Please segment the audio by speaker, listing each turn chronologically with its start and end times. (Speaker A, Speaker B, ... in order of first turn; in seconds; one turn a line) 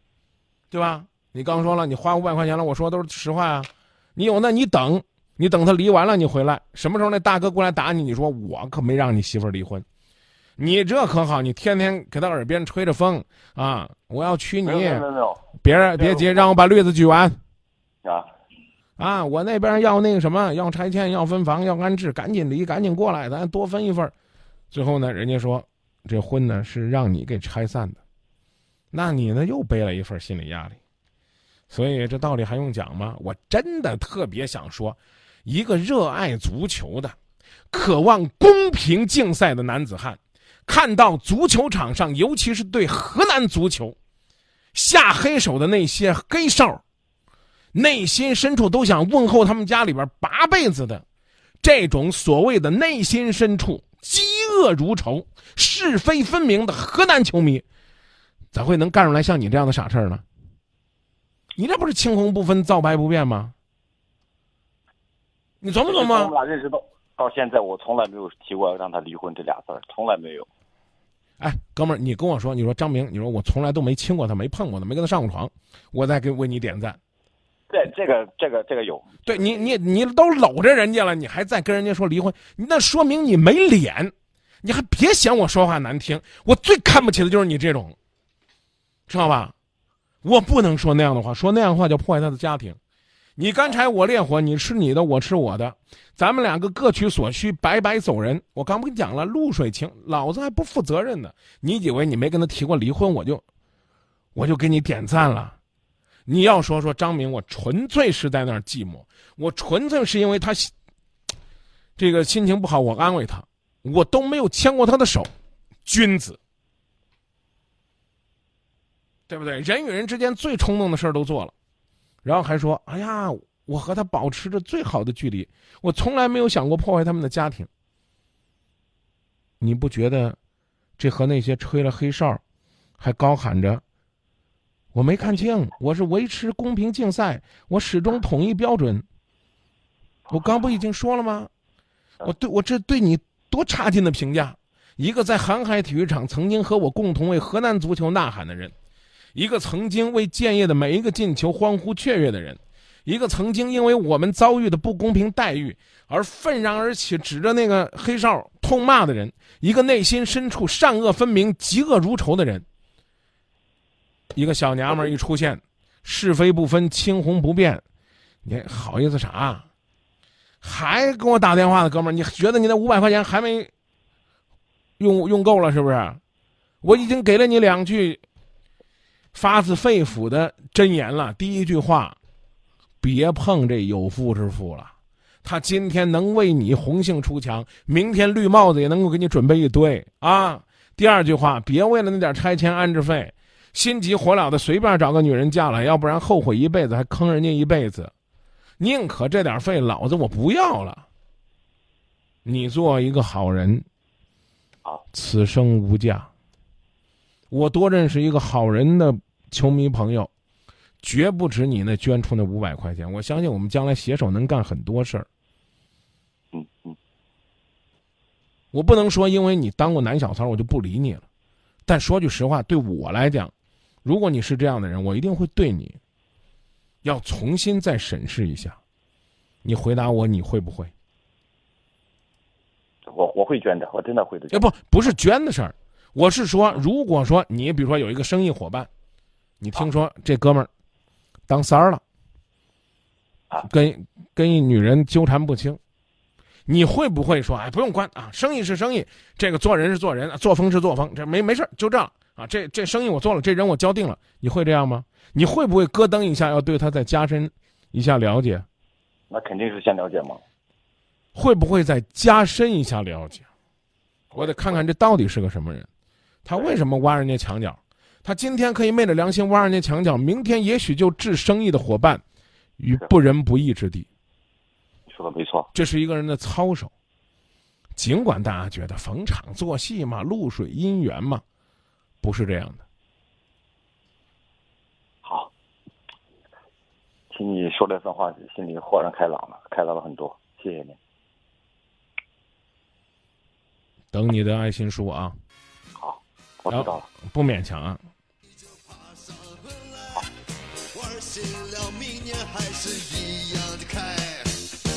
Speaker A: 0.7-9.8
Speaker A: 10.6-17.4
Speaker B: 14.6-16.5
Speaker B: 18.0-18.3
Speaker A: 19.0-24.1
Speaker A: 24.7-28.0
Speaker A: 28.9-30.8
Speaker A: 31.7-37.1
Speaker A: 37.7-44.0
Speaker A: 44.7-46.8
Speaker A: 47.7-51.0
Speaker A: 51.6-57.6
Speaker A: 58.5-60.2
Speaker A: 61.6-63.5
Speaker A: 65.6-66.3
Speaker B: 65.9-70.5
Speaker A: 71.4-77.0
Speaker B: 77.7-79.7
Speaker A: 79.2-88.0
Speaker A: 89.1-89.5
Speaker A: 90.2-92.8
Speaker A: 93.4-103.4
Speaker A: 104.3-105.6
Speaker A: 106.2-110.7
Speaker A: 112.0-115.3
Speaker A: 115.9-116.4
Speaker A: 119.3-121.5
Speaker A: 122.2-127.7
Speaker A: 129.6-130.4
Speaker A: 131.0-132.4
Speaker A: 133.0-133.8
Speaker A: 134.9-139.0
Speaker A: 140.3-141.5
Speaker A: 142.2-148.7
Speaker A: 149.3-162.6
Speaker A: 164.3-167.8
Speaker A: 168.4-169.7
Speaker A: 170.6-173.7
Speaker A: 175.0-176.2
Speaker A: 176.8-178.2
Speaker A: 179.3-182.2
Speaker A: 183.0-198.1
Speaker A: 198.8-201.1
Speaker A: 202.4-203.8
Speaker A: 205.1-206.3
Speaker A: 207.5-210.3
Speaker A: 211.0-215.3
Speaker B: 216.5-216.9
Speaker A: 218.7-221.3
Speaker A: 221.9-223.5
Speaker A: 224.1-226.0
Speaker A: 227.0-228.8
Speaker A: 229.6-230.9
Speaker B: 233.1-234.7
Speaker A: 234.5-238.9
Speaker A: 239.6-240.7
Speaker A: 241.5-242.0
Speaker A: 243.6-245.8
Speaker A: 246.7-258.6
Speaker B: 259.3-260.4
Speaker A: 261.4-263.5
Speaker B: 264.3-264.8
Speaker A: 264.4-265.9
Speaker A: 266.4-272.2
Speaker A: 272.8-274.1
Speaker B: 275.1-275.7
Speaker A: 275.7-276.9
Speaker A: 278.0-281.4
Speaker A: 282.2-282.8
Speaker B: 285.2-285.5
Speaker B: 287.3-291.0
Speaker A: 294.1-295.4
Speaker B: 295.9-297.1
Speaker A: 296.7-298.0
Speaker C: 298.5-300.3
Speaker C: 300.9-304.6